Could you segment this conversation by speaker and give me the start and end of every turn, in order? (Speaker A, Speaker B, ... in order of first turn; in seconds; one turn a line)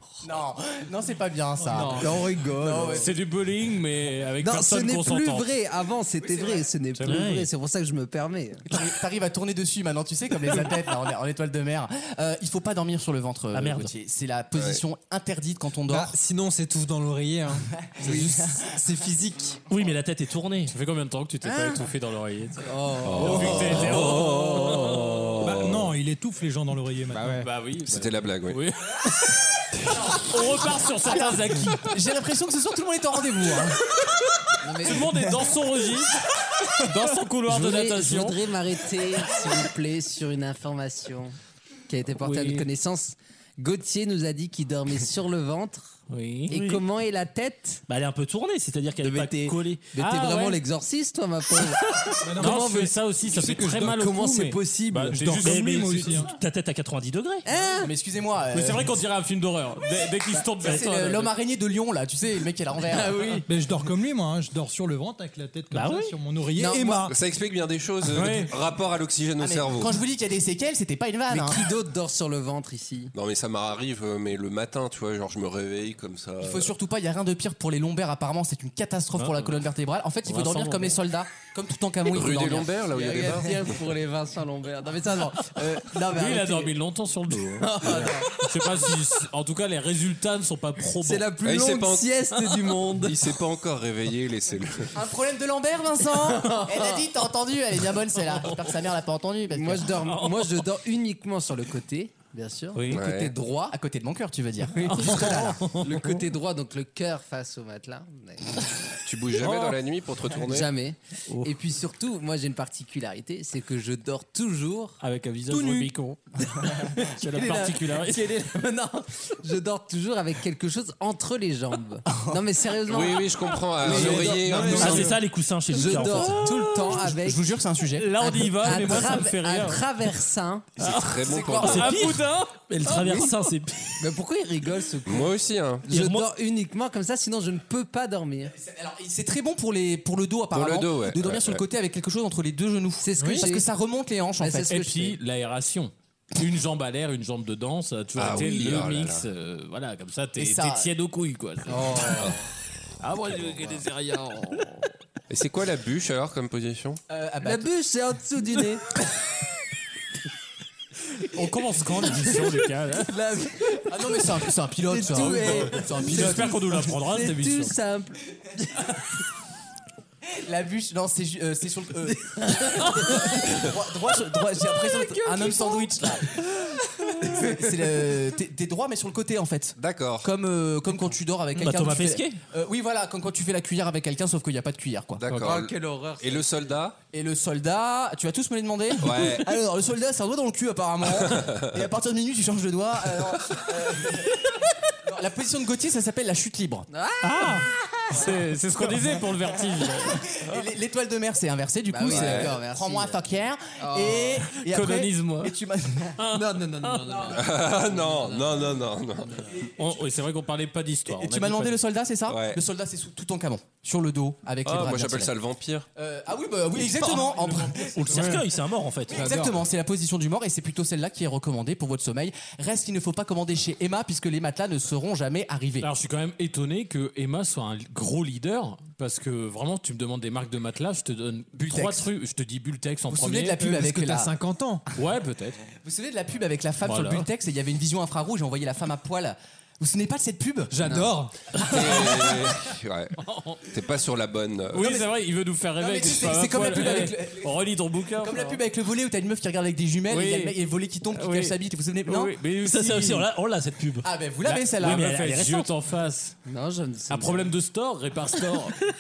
Speaker A: 0.2-3.1
Speaker B: 1.7-3.1
Speaker C: 2.9-5.5
Speaker B: 4.4-8.7
Speaker A: 6.2-6.7
Speaker C: 7.0-7.3
Speaker D: 7.0-7.5
Speaker A: 8.7-16.1
Speaker D: 13.5-13.9
Speaker E: 14.6-14.8
Speaker F: 15.9-19.6
Speaker A: 17.8-18.7
Speaker D: 19.7-20.7
Speaker C: 20.7-25.4
Speaker B: 21.4-21.9
Speaker B: 22.7-25.0
Speaker E: 23.0-25.9
Speaker G: 25.4-27.4
Speaker F: 27.1-27.5
Speaker C: 27.4-29.4
Speaker E: 27.8-28.6
Speaker C: 30.1-31.9
Speaker A: 31.0-33.9
Speaker B: 34.6-35.3
Speaker C: 34.8-36.2
Speaker C: 36.8-38.4
Speaker B: 37.5-41.4
Speaker B: 41.9-47.8
Speaker C: 42.2-42.7
Speaker C: 46.1-46.5
Speaker D: 46.5-46.8
Speaker D: 47.9-49.9
Speaker B: 49.0-52.8
Speaker C: 50.0-50.6
Speaker G: 52.2-52.8
Speaker C: 52.4-56.3
Speaker F: 53.3-55.2
Speaker G: 55.1-56.3
Speaker D: 55.3-57.5
Speaker B: 57.5-57.9
Speaker A: 57.8-59.0
Speaker C: 58.5-61.3
Speaker B: 60.3-60.8
Speaker A: 60.6-63.5
Speaker B: 62.9-63.5
Speaker G: 63.5-67.2
Speaker D: 65.7-66.2
Speaker B: 66.5-67.1
Speaker E: 67.0-70.0
Speaker C: 68.1-68.5
Speaker A: 69.4-71.7
Speaker B: 71.3-73.1
Speaker E: 73.1-76.7
Speaker A: 76.4-83.4
Speaker C: 79.2-79.6
Speaker C: 80.3-81.0
Speaker E: 82.1-83.5
Speaker B: 82.9-86.7
Speaker A: 85.2-85.9
Speaker C: 86.1-91.3
Speaker B: 87.6-88.8
Speaker B: 91.0-93.3
Speaker E: 91.4-92.1
Speaker C: 92.4-92.7
Speaker E: 93.0-94.9
Speaker A: 94.9-99.9
Speaker B: 96.5-96.9
Speaker B: 99.5-103.8
Speaker C: 100.0-100.7
Speaker C: 102.8-103.0
Speaker E: 102.9-103.4
Speaker A: 103.7-105.5
Speaker B: 104.8-108.6
Speaker C: 104.8-106.2
Speaker E: 109.0-110.7
Speaker C: 109.4-109.7
Speaker B: 110.4-115.0
Speaker C: 115.0-118.3
Speaker B: 116.8-125.2
Speaker A: 122.1-122.4
Speaker E: 122.9-125.1
Speaker F: 124.0-125.0
Speaker D: 124.7-126.5
Speaker C: 124.8-125.0
Speaker B: 125.7-127.5
Speaker C: 126.1-127.0
Speaker A: 126.8-128.1
Speaker C: 128.0-129.8
Speaker B: 128.2-130.7
Speaker A: 130.8-132.1
Speaker C: 130.8-132.7
Speaker E: 130.8-132.0
Speaker D: 131.6-134.0
Speaker B: 132.8-133.4
Speaker B: 134.0-138.5
Speaker E: 135.1-135.9
Speaker D: 135.9-136.3
Speaker A: 138.5-144.7
Speaker E: 140.5-141.6
Speaker B: 143.0-143.7
Speaker B: 144.4-145.2
Speaker C: 144.7-152.2
Speaker E: 148.2-149.3
Speaker A: 150.4-150.9
Speaker B: 151.7-152.4
Speaker C: 153.0-154.9
Speaker E: 155.3-157.0
Speaker A: 157.1-157.7
Speaker B: 157.4-158.9
Speaker C: 161.3-163.2
Speaker B: 162.2-162.5
Speaker B: 163.1-169.0
Speaker A: 163.9-166.8
Speaker C: 165.2-167.8
Speaker A: 170.3-176.4
Speaker B: 172.1-173.6
Speaker B: 174.8-176.1
Speaker A: 177.1-185.2
Speaker B: 177.2-178.1
Speaker E: 179.8-180.3
Speaker D: 181.6-182.4
Speaker E: 185.2-187.0
Speaker C: 185.3-185.6
Speaker B: 185.4-186.7
Speaker A: 187.1-196.9
Speaker E: 189.0-189.5
Speaker E: 191.2-191.7
Speaker B: 196.9-198.3
Speaker C: 197.2-200.6
Speaker A: 199.0-206.2
Speaker B: 201.9-203.2
Speaker E: 202.1-202.6
Speaker B: 203.8-204.5
Speaker C: 204.6-205.6
Speaker C: 206.2-207.3
Speaker B: 206.3-208.8
Speaker E: 207.3-209.4
Speaker A: 209.5-210.0
Speaker C: 209.8-211.8
Speaker A: 211.1-215.3
Speaker E: 212.3-212.6
Speaker E: 214.7-215.9
Speaker A: 216.0-218.4
Speaker D: 217.9-219.3
Speaker A: 219.1-225.9
Speaker F: 219.1-219.6
Speaker C: 225.8-233.6
Speaker A: 231.6-232.1
Speaker A: 233.1-234.3
Speaker F: 233.6-234.8
Speaker C: 234.9-235.6
Speaker A: 235.8-240.9
Speaker C: 236.8-237.3
Speaker G: 240.8-241.4
Speaker B: 240.8-241.1
Speaker C: 241.6-242.0
Speaker E: 241.6-243.2
Speaker C: 243.2-243.6
Speaker E: 243.7-245.0
Speaker C: 244.7-248.6
Speaker A: 245.8-247.7
Speaker A: 248.2-252.4
Speaker C: 250.1-250.6
Speaker C: 251.1-253.3
Speaker D: 252.7-254.1
Speaker A: 254.0-255.1
Speaker C: 254.4-256.4
Speaker D: 254.7-255.7
Speaker B: 256.4-257.5
Speaker C: 257.1-258.8